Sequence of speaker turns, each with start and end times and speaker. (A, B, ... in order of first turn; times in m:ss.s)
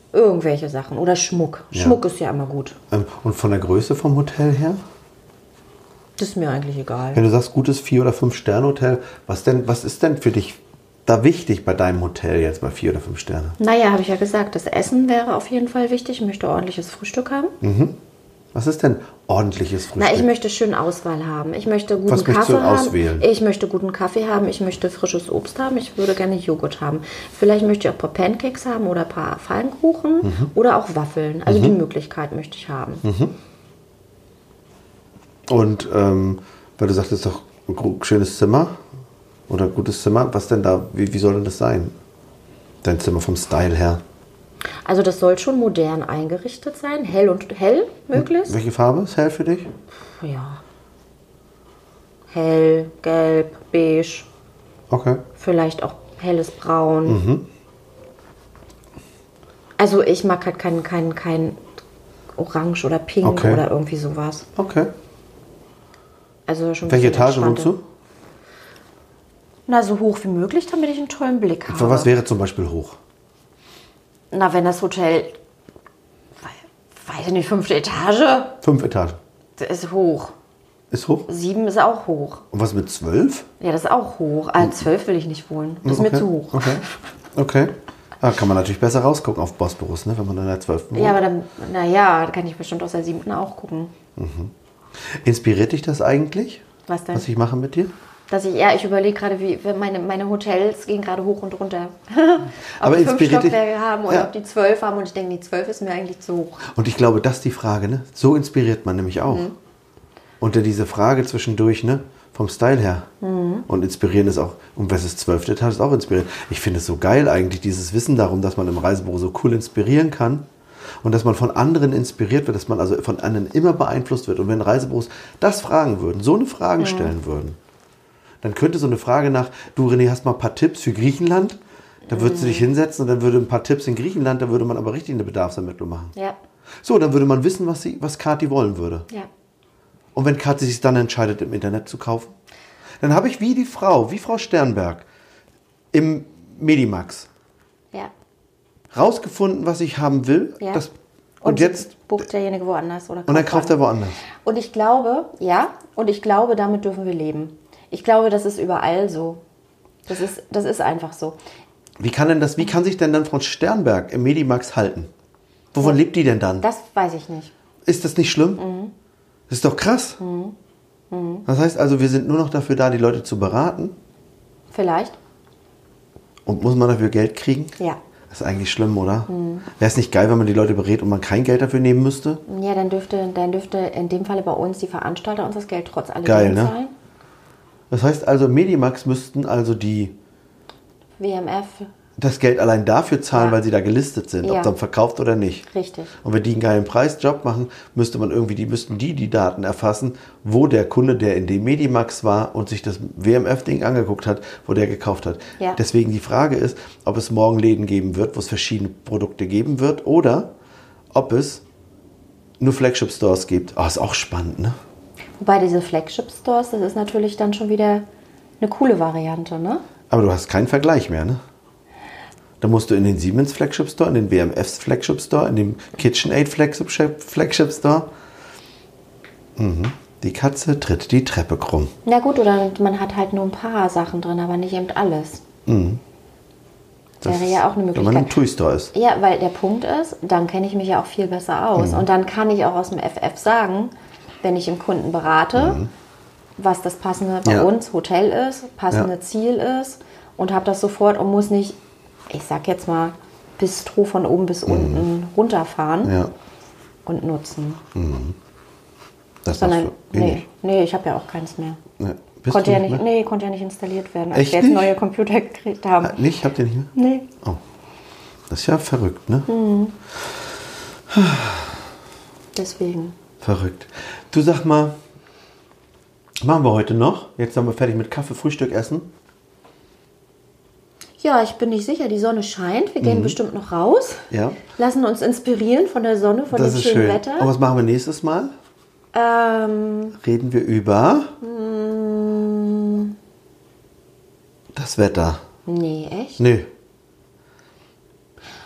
0:00.1-0:02.8 A
0:01.7-0:02.0 B
0:02.9-0:04.8 B
0:06.2-0:07.2 A
0:07.1-0:13.6 B
0:13.6-0:17.5 A
0:17.6-0:18.0 B
0:18.5-0:20.3 B
0:20.0-0:33.0 A
0:22.1-0:23.2 B
0:30.2-0:30.5 B
0:31.4-0:31.8 B
0:33.0-0:33.3 B
0:35.5-0:38.8 B
0:39.5-0:41.9 B
0:42.8-0:44.0 B
0:44.8-0:48.6 A
0:48.1-0:49.7 B
0:50.0-0:50.6 A
0:52.3-0:54.3 A
0:54.9-0:55.2 B
0:55.4-0:57.2 A
0:57.0-0:57.5 B
0:59.8-1:01.6 A
1:02.3-1:04.5 A
1:03.2-1:03.6 B
1:04.6-1:04.9 B
1:06.5-1:07.7 A
1:06.8-1:07.8 B
1:09.7-1:12.1 A
1:11.7-1:13.0 B
1:14.3-1:15.4 A
1:16.4-1:18.6 A
1:18.6-1:19.2 B
1:19.6-1:20.3 A
1:20.9-1:21.3 B
1:21.3-1:22.4 A
1:22.5-1:23.5 B
1:23.6-1:26.9 A
1:25.8-1:26.8 B
1:27.3-1:31.2 B
1:30.9-1:33.9 A
1:34.2-1:34.5 B
1:35.1-1:37.9 B
1:36.9-1:37.2 A
1:38.3-1:46.6 A
1:42.8-1:44.3 B
1:46.7-1:49.5 B
1:49.3-1:49.5 A
1:50.4-1:53.1 B
1:53.2-1:53.7 A
1:53.7-2:00.4 B
2:01.0-2:07.6 B
2:06.8-2:07.1 A
2:08.4-2:16.1 B
2:12.1-2:12.7 A
2:16.8-2:19.1 B
2:20.1-2:22.3 B
2:23.0-2:25.0 B
2:25.9-2:27.3 B
2:28.9-2:30.9 B
2:31.4-2:33.8 A
2:31.4-2:31.9 B
2:33.3-2:34.2 B
2:34.4-2:39.4 A
2:40.1-2:41.4 A
2:42.0-2:45.1 B
2:45.7-2:46.7 B
2:46.6-2:47.5 A
2:47.9-2:48.6 B
2:48.6-2:48.9 A
2:49.5-2:50.2 B
2:50.2-2:50.6 A
2:51.1-2:51.4 A
2:51.4-2:53.9 B
2:54.7-2:55.2 A
2:56.4-2:57.8 B
2:58.3-3:02.4 B
2:59.3-2:59.7 A
3:02.5-3:06.9 A
3:06.2-3:06.7 B
3:07.9-3:10.1 B
3:11.2-3:11.9 A
3:12.2-3:15.6 B
3:13.3-3:13.6 A
3:14.4-3:14.7 A
3:15.7-3:16.1 A
3:16.2-3:30.5 B
3:31.1-3:31.6 B
3:32.6-3:34.8 B
3:35.4-3:38.0 A
3:38.6-3:39.8 A
3:40.1-3:41.4 B
3:42.6-3:48.1 B
3:49.6-3:51.9 B
3:52.0-3:55.4 A
3:55.6-3:56.0 B
3:57.2-3:58.9 B
3:57.2-3:58.4 A
3:58.9-4:05.8 A
4:01.8-4:02.0 B
4:05.5-4:05.9 B
4:06.6-4:11.8 A
4:07.4-4:07.7 B
4:12.3-4:16.1 A
4:14.7-4:15.0 B
4:16.0-4:16.3 B
4:17.0-4:17.8 A
4:17.9-4:18.4 B
4:19.4-4:20.4 B
4:19.5-4:21.8 A
4:22.0-4:23.0 B
4:22.5-4:26.2 A
4:24.3-4:24.9 B
4:26.0-4:27.6 B
4:26.9-4:27.3 A
4:28.5-4:29.5 B
4:29.5-4:30.0 A
4:31.1-4:31.8 B
4:32.5-4:33.2 A
4:33.4-4:35.0 B
4:36.4-4:39.1 B
4:41.2-4:47.5 A
4:43.0-4:43.4 B
4:44.3-4:44.6 B
4:46.5-4:48.5 B
4:49.1-4:50.2 A
4:50.2-4:51.4 B
4:51.4-4:53.2 A
4:54.7-4:55.4 B
4:55.6-4:56.4 A
4:56.4-4:56.7 B